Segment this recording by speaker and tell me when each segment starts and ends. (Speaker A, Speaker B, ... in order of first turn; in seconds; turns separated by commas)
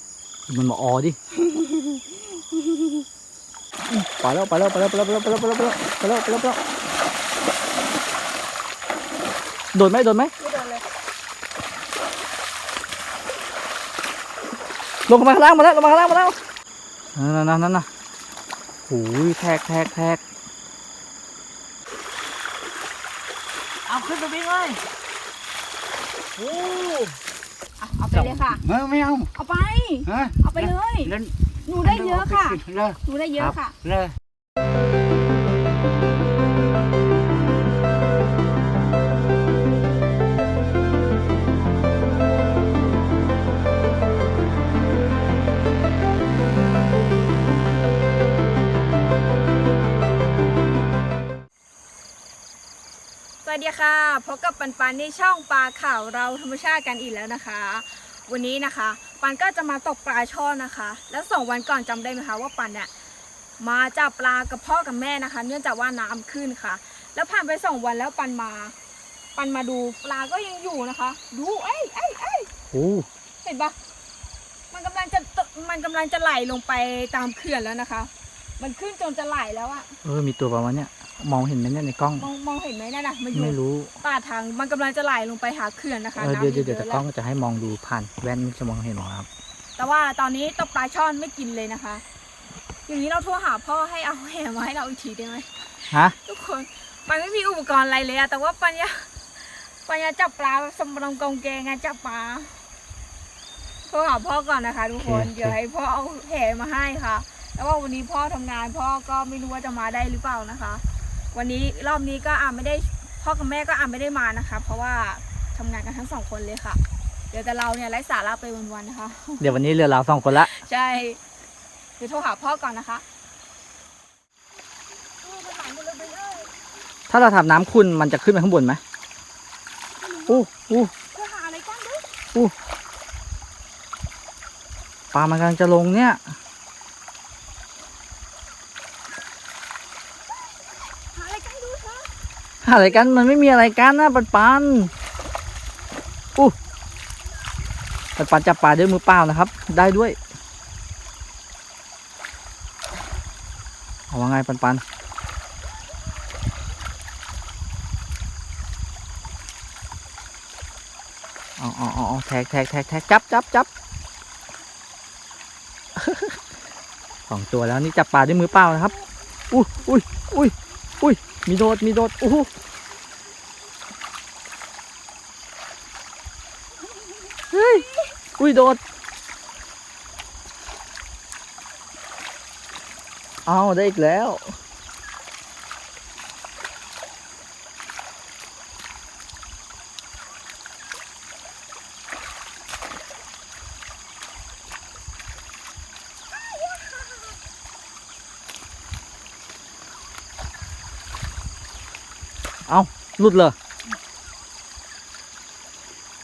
Speaker A: 0.5-1.2, Speaker B: 1.5-2.0, Speaker A: 3.9-6.6, Speaker A: 9.7-10.3, Speaker B: 10.4-10.8, Speaker A: 15.1-16.4, Speaker A: 17.1-17.9, Speaker A: 18.9-20.2, Speaker A: 23.9-24.8, Speaker A: 26.4-27.2, Speaker B: 27.8-28.6, Speaker C: 28.1-29.3, Speaker B: 29.4-31.1, Speaker C: 30.1-33.0, Speaker B: 31.6-33.7, Speaker C: 33.8-34.2, Speaker B: 53.4-62.9, Speaker B: 63.6-68.8, Speaker B: 69.4-72.5, Speaker A: 72.7-73.1, Speaker B: 73.4-73.8, Speaker B: 74.7-80.0, Speaker A: 80.0-82.3, Speaker B: 82.2-87.0, Speaker A: 83.3-83.9, Speaker A: 86.2-89.3, Speaker B: 89.8-92.0, Speaker B: 92.9-102.6, Speaker B: 103.9-110.8, Speaker A: 105.0-105.6, Speaker B: 111.3-116.8, Speaker B: 117.3-119.5, Speaker A: 119.4-120.5, Speaker B: 120.4-121.2, Speaker B: 122.0-123.0, Speaker B: 125.2-126.5, Speaker A: 127.1-128.8, Speaker B: 130.0-130.5, Speaker A: 130.3-130.9, Speaker B: 131.1-132.1, Speaker A: 135.1-136.2, Speaker B: 140.9-142.1, Speaker A: 142.6-144.9, Speaker A: 148.2-150.2, Speaker A: 154.1-154.8, Speaker A: 161.6-163.7, Speaker A: 165.9-166.4, Speaker A: 167.3-168.9, Speaker B: 168.8-169.0, Speaker A: 169.5-172.5, Speaker B: 177.0-178.1, Speaker A: 177.5-177.9, Speaker A: 178.4-178.8, Speaker A: 183.5-184.6, Speaker A: 202.7-203.6